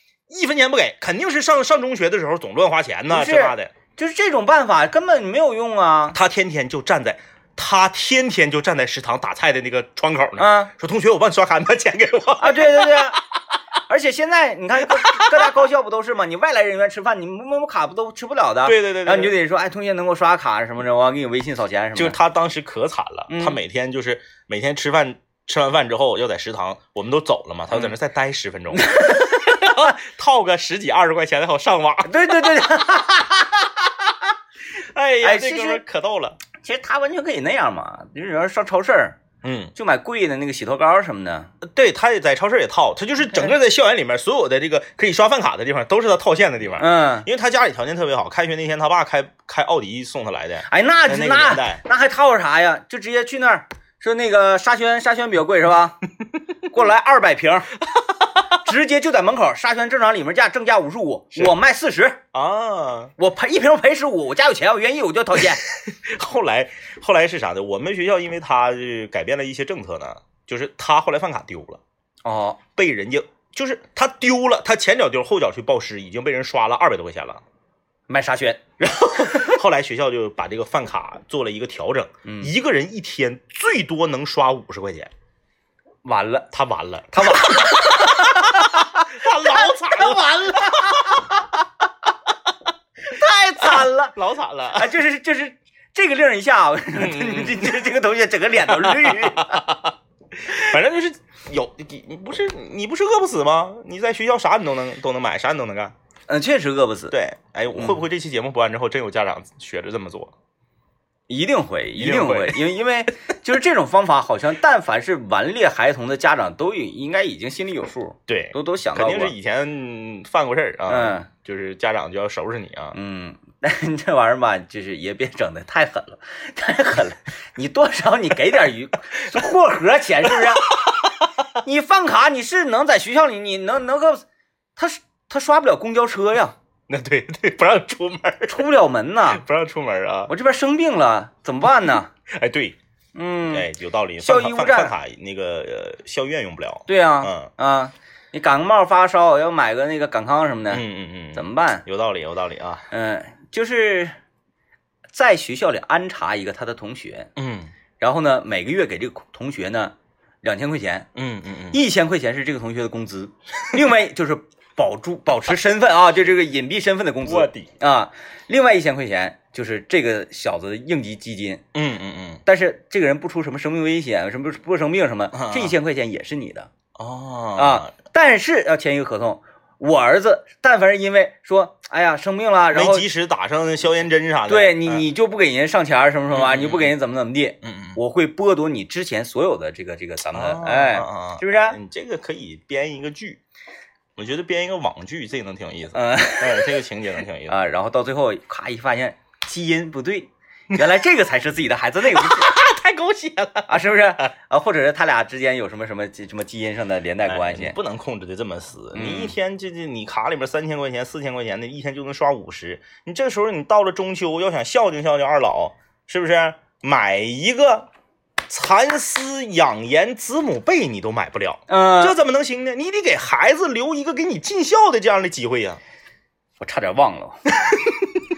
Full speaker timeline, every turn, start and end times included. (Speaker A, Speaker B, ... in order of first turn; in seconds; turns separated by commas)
Speaker A: 0.3-3.7, Speaker B: 3.1-6.2, Speaker A: 6.1-13.2, Speaker B: 10.4-10.7, Speaker B: 12.4-13.2, Speaker B: 13.9-22.2, Speaker A: 14.9-15.5, Speaker A: 18.6-19.4, Speaker A: 21.9-32.6, Speaker B: 23.3-23.6, Speaker B: 28.8-29.9, Speaker B: 32.0-33.8, Speaker A: 34.8-36.4, Speaker B: 35.2-35.8, Speaker B: 36.6-39.2, Speaker A: 39.4-39.7, Speaker B: 39.8-41.5, Speaker A: 41.6-51.8, Speaker B: 46.8-47.3, Speaker B: 50.7-56.0, Speaker B: 56.6-57.7, Speaker B: 58.5-62.2, Speaker A: 62.3-63.1, Speaker B: 63.2-65.6, Speaker A: 65.7-71.8, Speaker B: 72.2-72.6, Speaker A: 72.8-77.4, Speaker B: 78.1-79.6, Speaker A: 78.8-85.1, Speaker B: 82.2-82.5, Speaker B: 86.0-86.5, Speaker A: 86.5-91.3, Speaker B: 87.1-91.5, Speaker B: 93.0-94.2, Speaker A: 93.6-95.0, Speaker B: 94.7-99.7, Speaker A: 97.0-97.9, Speaker A: 98.6-105.9, Speaker B: 106.3-107.2, Speaker A: 107.1-110.3, Speaker B: 107.8-108.0, Speaker B: 111.3-119.3, Speaker A: 112.0-112.6, Speaker A: 118.3-123.0, Speaker B: 120.9-121.3, Speaker B: 122.9-130.8, Speaker A: 130.3-131.1, Speaker B: 131.6-134.2, Speaker B: 134.8-136.6, Speaker A: 136.9-138.7, Speaker B: 138.5-139.4, Speaker A: 139.3-140.3, Speaker B: 140.3-142.1, Speaker A: 142.3-142.8, Speaker B: 143.2-143.7, Speaker A: 143.5-147.5, Speaker B: 144.2-144.9, Speaker B: 146.9-151.8, Speaker A: 150.7-152.8, Speaker B: 152.9-154.2, Speaker B: 155.1-157.3, Speaker A: 157.4-157.7, Speaker B: 158.0-161.1, Speaker A: 161.2-161.8, Speaker B: 161.7-171.6, Speaker A: 167.2-167.7, Speaker A: 171.7-172.4, Speaker B: 172.5-176.7, Speaker A: 175.3-175.8, Speaker A: 177.0-177.9, Speaker B: 177.6-183.1, Speaker A: 182.7-185.1, Speaker B: 184.5-191.8, Speaker A: 186.3-186.9, Speaker A: 187.6-188.0, Speaker A: 190.3-193.4, Speaker A: 194.2-197.6, Speaker B: 195.9-196.8, Speaker B: 197.5-202.5, Speaker A: 202.1-203.9, Speaker B: 203.7-207.8, Speaker A: 207.3-217.9, Speaker B: 208.9-209.3, Speaker A: 218.5-225.8, Speaker B: 221.7-222.2, Speaker B: 226.6-227.4